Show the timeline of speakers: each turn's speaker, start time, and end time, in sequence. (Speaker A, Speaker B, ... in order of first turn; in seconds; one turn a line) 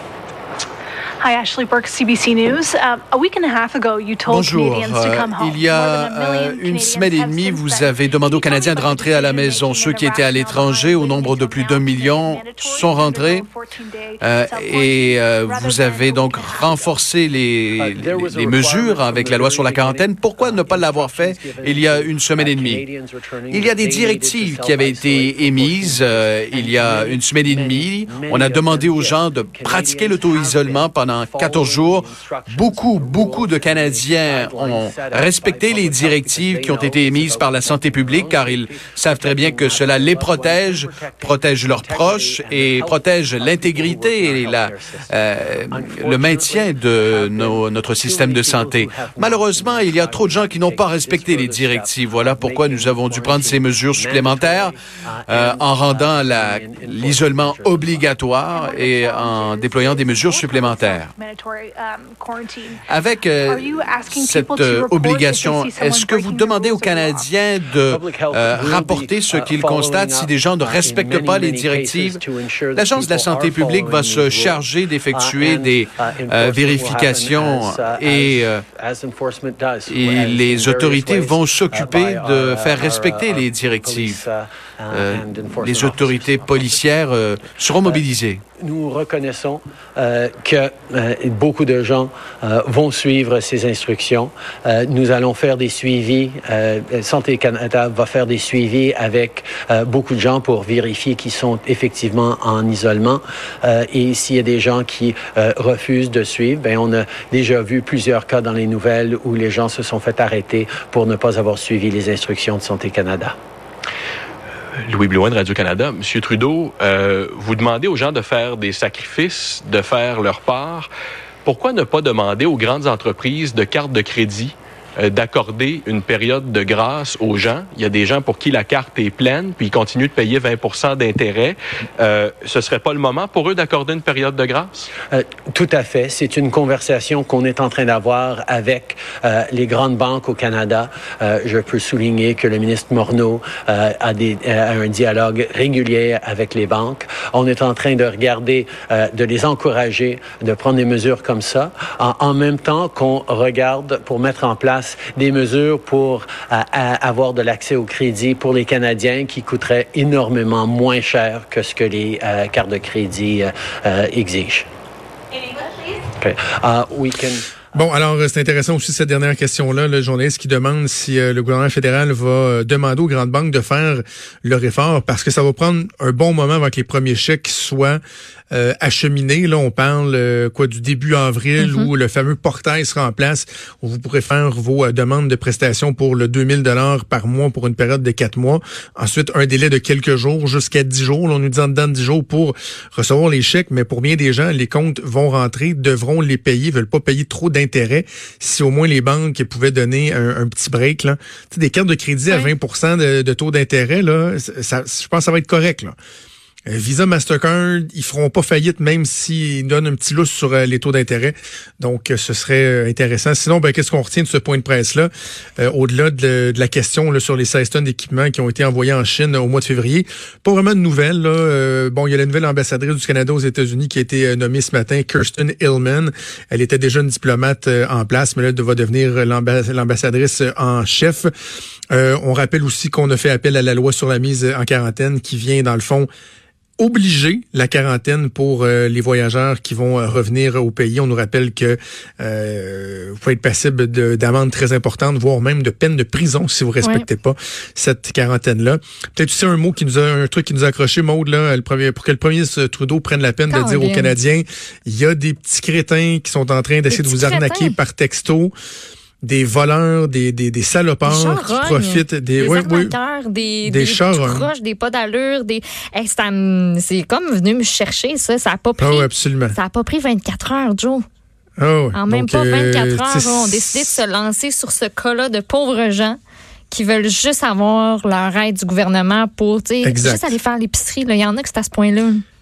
Speaker A: 1.2-17.0
Speaker B: 4.3-13.5
Speaker B: 14.2-22.8
Speaker C: 17.8-58.1
Speaker B: 23.5-54.8
Speaker B: 55.3-61.1
Speaker A: 58.5-62.8
Speaker B: 62.9-72.2
Speaker A: 63.3-67.3
Speaker C: 67.8-86.9
Speaker B: 72.8-78.6
Speaker B: 79.9-84.2
Speaker B: 84.9-88.4
Speaker C: 88.6-113.3
Speaker D: 114.8-120.9
Speaker D: 121.4-134.8
Speaker C: 135.1-164.7
Speaker C: 166.2-167.4
Speaker E: 167.7-178.0
Speaker E: 178.5-205.9
Speaker F: 181.6-181.9
Speaker E: 206.7-231.3
Speaker E: 231.9-236.1
Speaker E: 236.8-258.5
Speaker F: 253.5-254.1
Speaker F: 256.9-257.8
Speaker E: 259.2-262.9
Speaker F: 261.0-271.0
Speaker E: 263.6-264.5
Speaker E: 268.8-269.6
Speaker E: 271.6-274.0
Speaker F: 271.9-276.2
Speaker F: 276.7-282.2
Speaker E: 279.8-280.3